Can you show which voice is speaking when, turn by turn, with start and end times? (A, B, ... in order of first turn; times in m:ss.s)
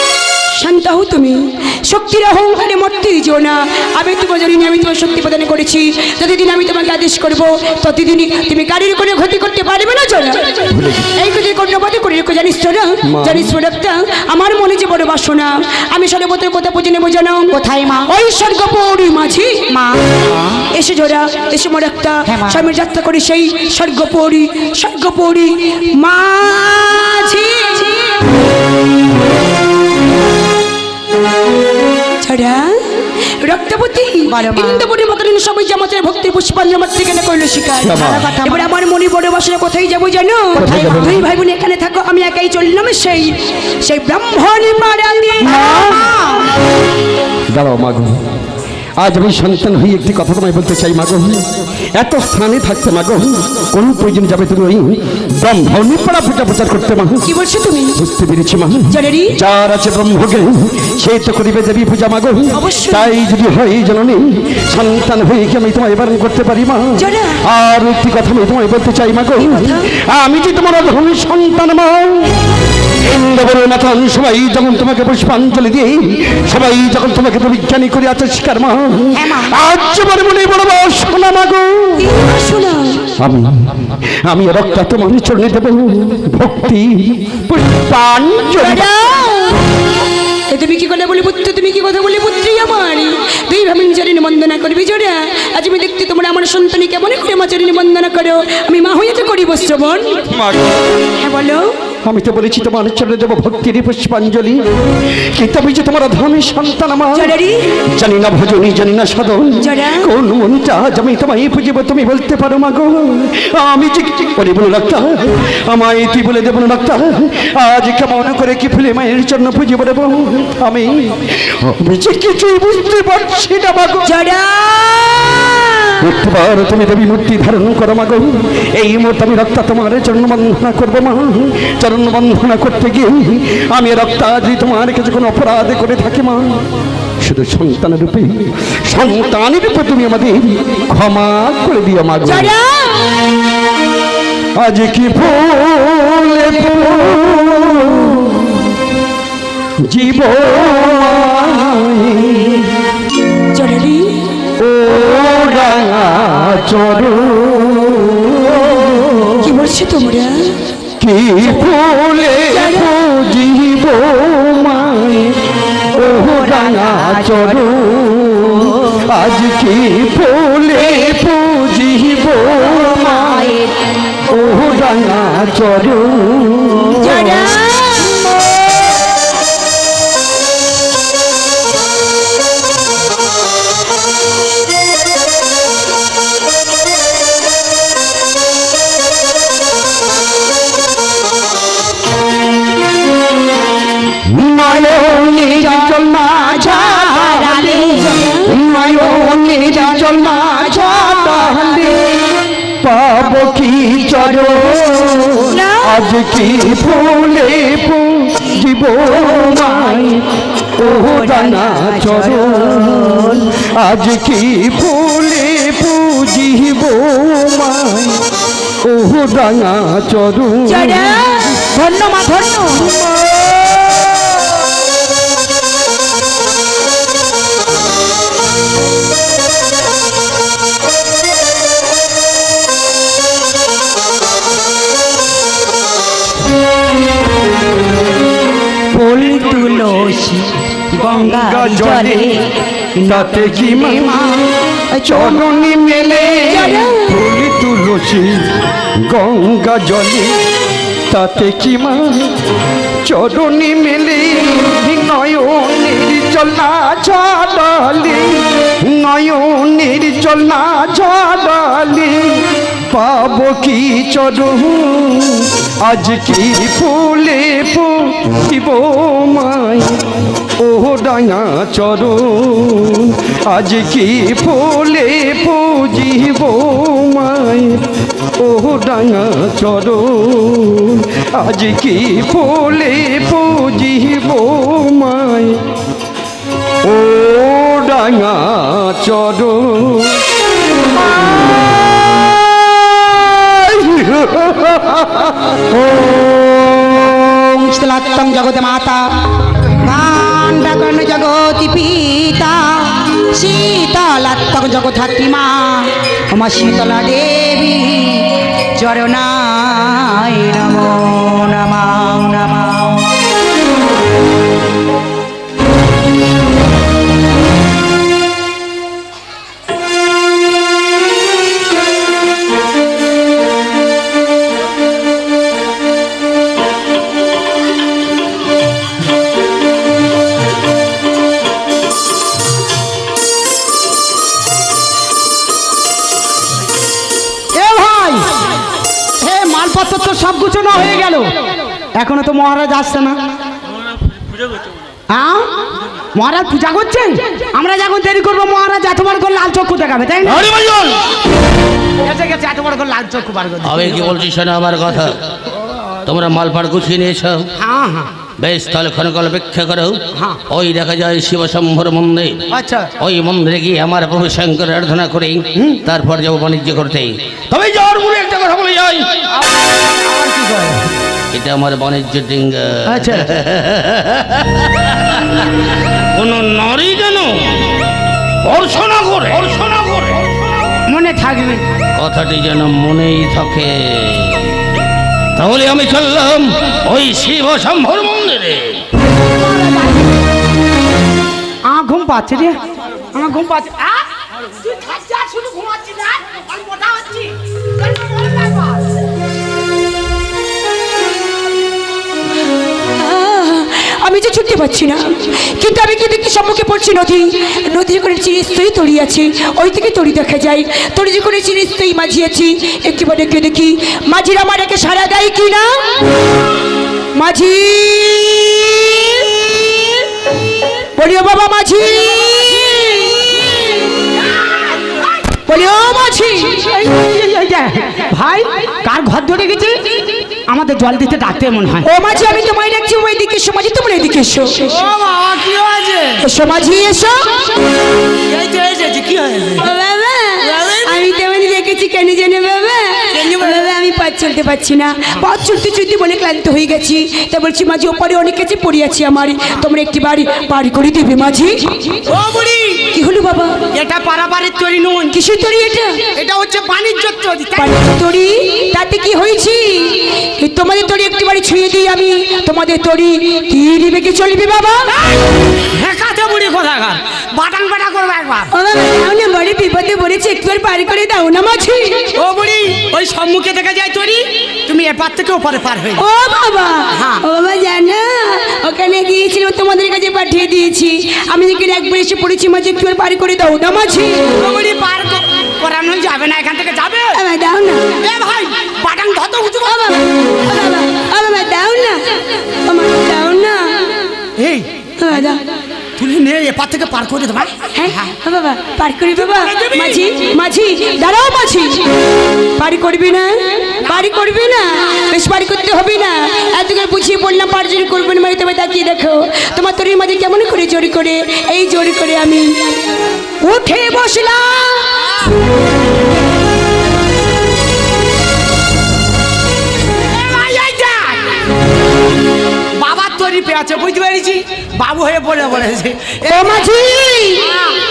0:00.5-0:17.6 A
0:10.7-0:11.1 B
0:13.1-0:13.5 B
0:17.5-0:18.1 C
0:18.1-0:19.6 A
0:19.7-0:20.6 C
0:20.7-0:28.2 A
0:22.2-0:22.7 C
0:32.2-0:32.8 A
0:33.4-0:45.8 A
0:34.3-0:34.9 C
0:37.9-0:38.2 B
0:37.9-0:38.7 C
0:40.5-0:41.2 B
0:45.4-0:46.5 C
0:45.6-0:46.1 B
0:47.5-0:48.2 B
0:49.0-0:51.4 B
0:51.9-0:57.2 B
0:57.2-0:58.0 A
0:58.0-1:12.4 B
0:58.9-0:59.4 A
1:02.5-1:03.1 A
1:07.0-1:07.4 A
1:09.4-1:09.9 A
1:13.0-1:22.1 B
1:19.1-1:19.5 C
1:22.0-1:23.0 A
1:23.2-1:28.9 B
1:28.5-1:29.6 A
1:30.5-1:40.2 A
1:40.3-1:40.8 B
1:41.2-1:41.7 A
1:42.0-1:44.6 B
1:45.3-1:47.3 B
1:47.1-1:47.6 A
1:47.9-2:04.1 B
1:49.6-1:50.1 A
2:04.0-2:06.1 A
2:06.0-2:16.6 B
2:17.2-2:22.5 B
2:22.2-2:23.1 A
2:24.6-2:28.6 B
2:29.9-2:32.7 B
2:33.5-2:34.2 A
2:34.6-2:39.0 B
2:39.4-2:40.5 A
2:41.0-2:45.4 B
2:42.5-2:42.9 A
2:45.9-2:53.5 B
2:45.9-2:47.8 C
2:48.4-2:49.0 C
2:50.8-2:51.2 C
2:52.5-2:53.8 C
2:54.3-2:57.5 B
2:56.9-2:58.3 A
3:14.2-3:17.7 B
3:15.7-3:15.9 C
3:16.5-3:18.2 C
3:17.4-3:18.5 A
3:18.4-3:22.2 B
3:20.0-3:21.8 C
3:22.8-3:30.2 B
3:24.0-3:25.3 C
3:25.5-3:26.1 A
3:29.3-3:30.1 C
3:30.8-3:38.2 B
3:30.8-3:33.5 C
3:38.8-3:41.4 B
3:40.6-3:41.6 A
3:41.6-3:43.0 C
3:58.9-4:06.8 C
3:59.2-4:00.0 B
4:00.9-4:02.4 B
4:03.0-4:04.2 B
4:05.0-4:08.5 B
4:06.4-4:07.2 A
4:09.0-4:10.4 B
4:11.1-4:12.3 B
4:13.0-4:30.0 B
4:30.6-4:37.8 B
4:38.4-4:45.6 B
4:46.8-4:50.2 B
4:53.0-4:55.6 B
4:55.7-4:59.2 C
4:59.8-5:13.2 C
5:37.6-5:38.4 C
5:39.2-5:43.3 C
5:45.1-5:50.4 C
5:50.2-5:51.0 D
5:52.0-5:54.1 C
5:53.6-5:55.2 D
5:56.0-5:57.4 D
5:57.6-5:58.1 C
5:58.4-6:02.5 D
6:02.5-6:02.9 C
6:03.0-6:09.2 D
6:05.6-6:05.8 C
6:09.3-6:10.8 C
6:11.3-6:15.5 D
6:12.8-6:13.4 C
6:16.1-6:17.8 D
6:18.4-6:20.4 D
6:20.8-6:21.6 C
6:22.0-6:24.5 D
6:25.3-6:28.8 D
6:31.6-6:32.6 C
6:33.1-6:38.9 C
6:43.0-6:56.0 A
6:57.1-7:00.0 A
7:01.0-7:03.5 A
7:05.4-7:06.7 A
7:06.5-7:11.9 C
7:11.8-7:14.8 A
7:14.7-7:16.2 C
7:16.2-7:17.5 A
7:18.2-7:19.7 C
7:19.6-7:31.7 A
7:20.4-7:21.1 C
7:23.1-7:23.6 C
7:32.0-7:32.9 C
7:32.9-7:33.7 A
7:33.7-7:35.2 C
7:35.1-7:36.0 A
7:36.1-7:37.7 C
7:37.6-7:44.9 A
7:44.9-7:48.5 C
7:48.5-7:52.1 A
7:52.1-7:56.0 C
7:56.0-8:04.3 A
7:56.9-7:57.2 C
8:04.3-8:07.2 C
8:07.1-8:08.0 A
8:07.9-8:10.0 C
8:09.6-8:14.3 A
8:14.4-8:15.3 C
8:15.0-8:15.4 A
8:16.0-8:18.1 C
8:17.7-8:21.9 A
8:19.2-8:20.2 C
8:22.6-8:32.8 A
8:33.4-8:35.0 A
8:40.1-8:41.4 C
8:42.8-8:46.6 C
8:46.2-8:47.6 A